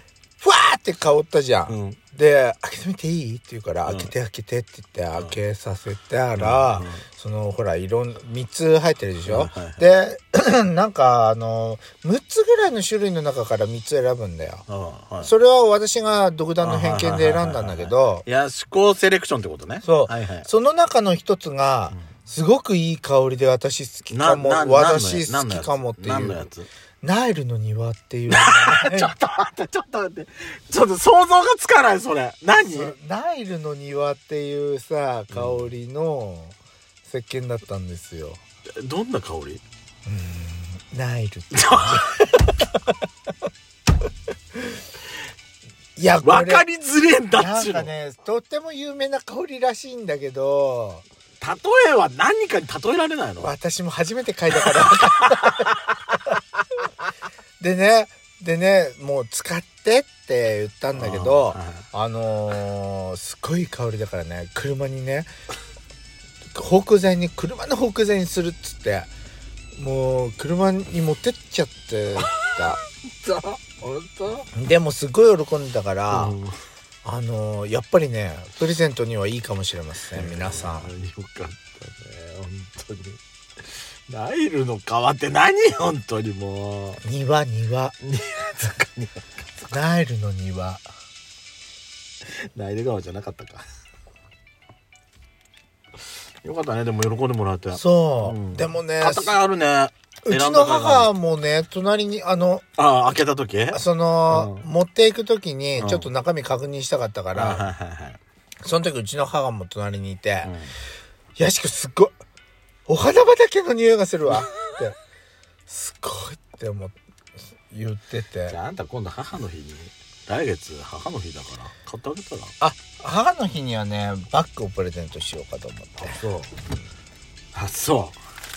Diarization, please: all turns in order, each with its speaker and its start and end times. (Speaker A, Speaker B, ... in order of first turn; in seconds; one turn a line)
Speaker A: 0.4-14.7
Speaker B: 1.7-2.0
Speaker B: 3.9-4.1
Speaker B: 6.3-7.0
Speaker B: 9.2-9.8
Speaker B: 14.7-15.3
Speaker A: 15.2-18.3
Speaker B: 16.6-20.5
Speaker A: 19.8-26.4
Speaker B: 24.1-26.7
Speaker A: 27.0-29.1
Speaker B: 28.3-33.0
Speaker A: 32.6-38.4
Speaker B: 35.3-35.7
Speaker B: 38.8-39.6
Speaker A: 40.1-42.9
Speaker B: 41.5-42.1
Speaker A: 46.0-46.7
Speaker B: 46.2-47.9
Speaker A: 47.3-51.0
Speaker B: 51.4-53.5
Speaker A: 53.4-55.8
Speaker B: 54.6-56.1
Speaker A: 57.6-65.3
Speaker B: 61.0-61.9
Speaker A: 66.5-69.1
Speaker A: 69.8-72.8
Speaker B: 73.2-74.5
Speaker A: 74.5-76.4
Speaker B: 76.1-76.6
Speaker A: 77.0-80.9
Speaker B: 80.1-83.2
Speaker B: 84.1-87.0
Speaker A: 87.0-88.0
Speaker B: 88.0-89.2
Speaker A: 89.7-90.8
Speaker B: 92.2-93.7
Speaker B: 96.4-101.1
Speaker A: 97.7-99.4
Speaker A: 100.2-102.6
Speaker B: 102.8-104.7
Speaker A: 103.7-107.7
Speaker B: 105.8-106.1
Speaker B: 107.3-108.2
Speaker A: 108.6-110.5
Speaker B: 110.4-110.7
Speaker A: 111.4-112.2
Speaker A: 112.9-115.0
Speaker A: 115.7-117.0
Speaker A: 117.7-118.6
Speaker B: 118.5-122.5
Speaker A: 122.6-126.2
Speaker B: 126.0-126.5
Speaker B: 127.5-128.2